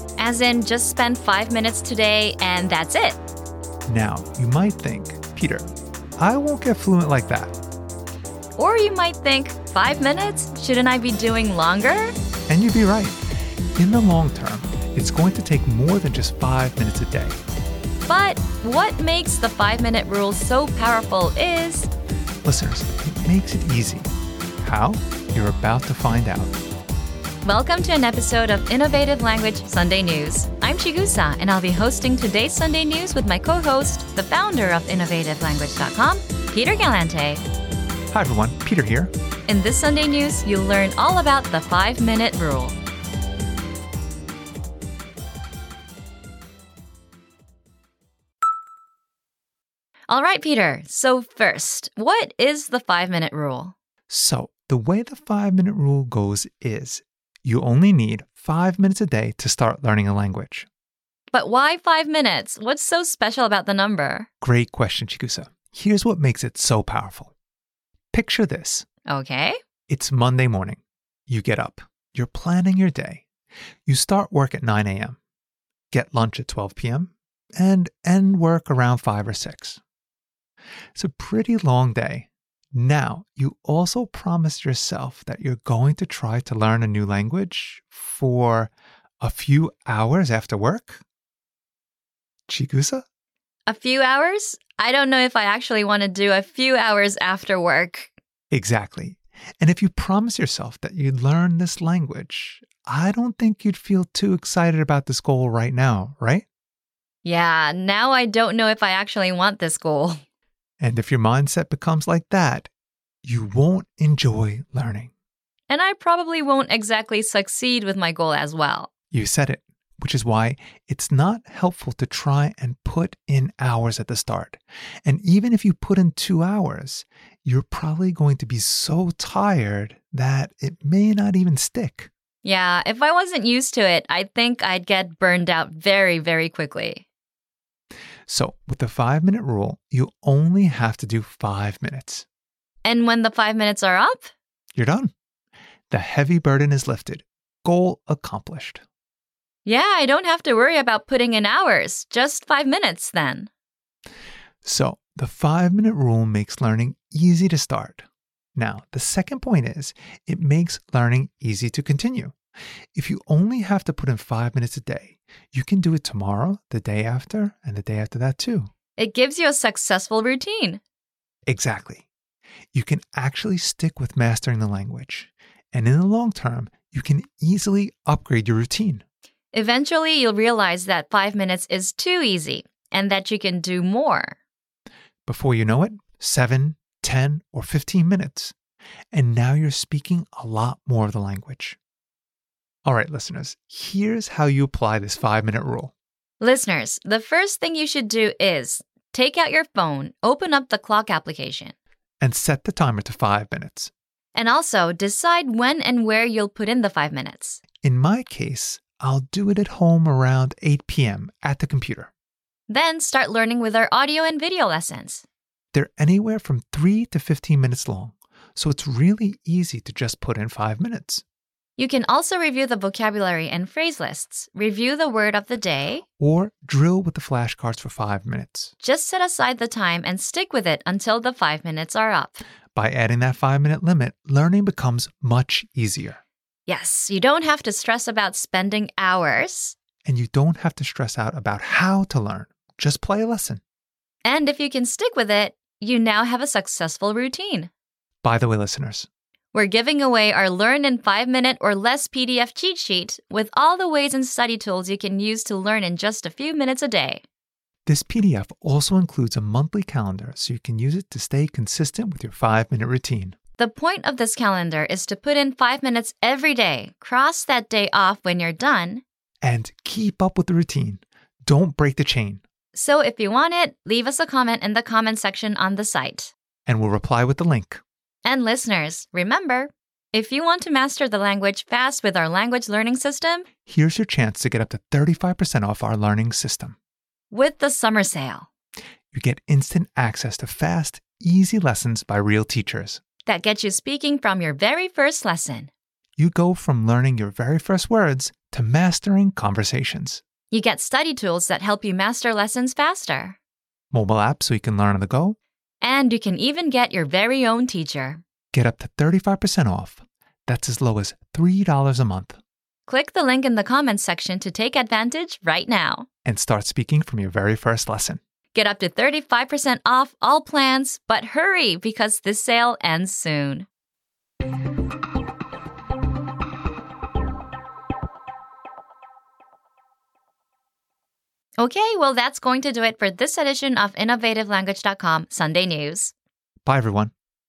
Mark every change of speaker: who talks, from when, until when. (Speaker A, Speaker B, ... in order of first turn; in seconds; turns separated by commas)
Speaker A: 0.2-3.2, Speaker B: 3.9-7.5, Speaker A: 8.6-12.1, Speaker B: 12.5-13.2, Speaker B: 13.8-17.4, Speaker A: 18.1-21.9, Speaker B: 22.4-24.1, Speaker B: 24.6-26.5, Speaker A: 27.4-37.4, Speaker B: 38.1-39.1, Speaker A: 39.5-42.8, Speaker A: 50.1-53.7, Speaker B: 54.1-60.7, Speaker A: 61.3-64.3, Speaker B: 64.4-67.3, Speaker B: 68.1-68.8, Speaker A: 69.1-69.6, Speaker B: 69.9-73.2, Speaker B: 73.8-75.2, Speaker B: 75.9-79.8, Speaker B: 81.0-91.0, Speaker B: 92.5-93.0, Speaker A: 93.7-98.1, Speaker B: 98.5-106.5, Speaker A: 107.2-110.2, Speaker B: 110.8-112.7, Speaker B: 113.2-115.1, Speaker A: 115.7-118.9, Speaker B: 119.1-132.1, Speaker A: 132.4-137.1, Speaker B: 138.3-142.2, Speaker A: 142.8-144.3, Speaker B: 144.7-145.1, Speaker B: 145.9-148.8, Speaker A: 149.6-153.5, Speaker B: 154.6-162.3, Speaker B: 162.9-168.7, Speaker A: 169.0-170.8, Speaker B: 171.5-172.1, Speaker B: 172.7-179.0, Speaker A: 179.5-184.4, Speaker B: 185.2-188.5, Speaker B: 189.1-191.8, Speaker B: 192.8-195.9, Speaker A: 196.4-201.7, Speaker B: 202.2-203.9, Speaker A: 204.3-207.6, Speaker B: 207.8-212.1, Speaker A: 212.7-215.2, Speaker B: 215.7-221.2, Speaker A: 221.8-226.0, Speaker B: 226.2-228.7, Speaker A: 228.8-232.4, Speaker B: 232.7-236.2, Speaker A: 236.7-239.8, Speaker B: 240.0-243.6, Speaker A: 244.2-247.7, Speaker B: 248.2-249.1, Speaker A: 249.5-257.2, Speaker B: 257.9-263.4, Speaker A: 263.6-269.0, Speaker B: 269.4-272.4, Speaker A: 272.7-276.3, Speaker B: 276.7-277.8, Speaker A: 278.2-283.4, Speaker B: 283.6-286.8, Speaker A: 287.3-288.5, Speaker B: 289.1-293.0, Speaker A: 293.2-295.7, Speaker B: 296.2-300.2, Speaker A: 300.5-303.4, Speaker B: 303.9-305.4, Speaker A: 305.8-308.2, Speaker B: 308.5-312.4, Speaker A: 312.9-316.1, Speaker B: 316.2-318.2, Speaker A: 318.5-323.7, Speaker A: 331.6-336.1, Speaker B: 336.6-337.1